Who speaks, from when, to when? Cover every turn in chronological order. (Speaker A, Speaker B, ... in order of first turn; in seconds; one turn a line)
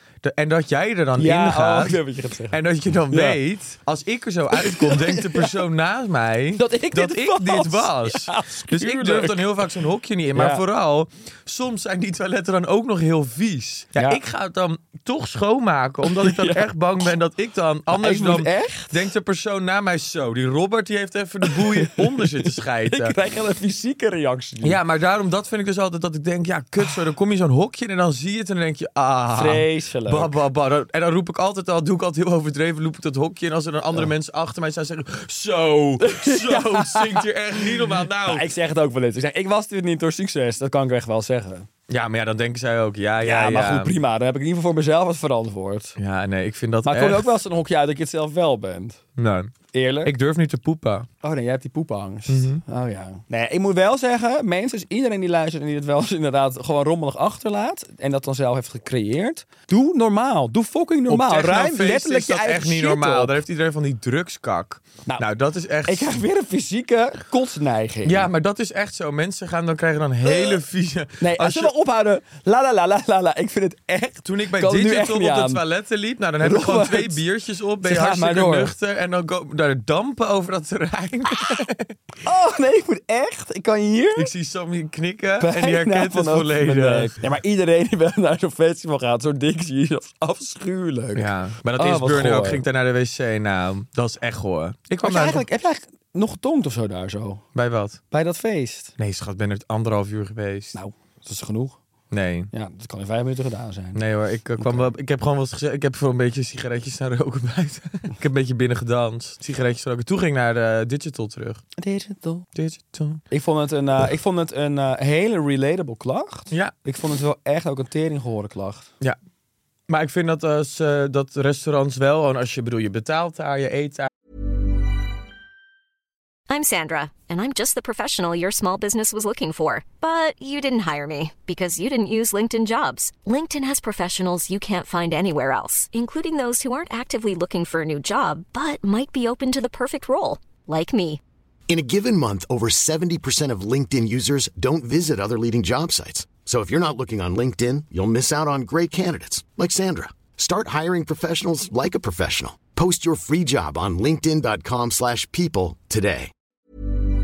Speaker A: 0.2-2.0
Speaker B: 1.2-3.4
Speaker A: 2.5-23.1
Speaker B: 4.5-5.6
Speaker B: 6.6-9.5
Speaker B: 10.3-10.6
Speaker B: 14.0-14.2
Speaker B: 16.0-16.7
Speaker B: 17.9-19.0
Speaker B: 21.4-24.8
Speaker A: 24.6-38.5
Speaker B: 29.3-30.3
Speaker B: 36.0-41.7
Speaker A: 41.9-44.0
Speaker B: 43.2-46.0
Speaker A: 46.0-47.4
Speaker B: 46.9-49.0
Speaker A: 49.2-51.1
Speaker B: 49.7-50.1
Speaker B: 51.2-63.3
Speaker A: 52.3-52.6
Speaker A: 61.1-66.2
Speaker B: 65.9-68.3
Speaker A: 68.0-71.7
Speaker B: 70.2-70.6
Speaker B: 71.2-75.6
Speaker A: 74.2-82.0
Speaker B: 76.4-77.2
Speaker B: 77.8-78.7
Speaker B: 82.2-84.3
Speaker A: 84.2-87.2
Speaker B: 85.4-92.6
Speaker A: 91.2-95.5
Speaker B: 95.0-97.4
Speaker A: 97.5-98.0
Speaker B: 98.1-98.9
Speaker A: 99.0-100.8
Speaker B: 100.7-101.8
Speaker A: 102.1-102.5
Speaker B: 102.5-104.0
Speaker A: 104.0-111.6
Speaker B: 104.6-104.9
Speaker B: 111.8-112.5
Speaker A: 112.5-113.2
Speaker B: 113.3-118.9
Speaker A: 119.9-124.1
Speaker C: 126.5-141.2
Speaker D: 141.7-156.3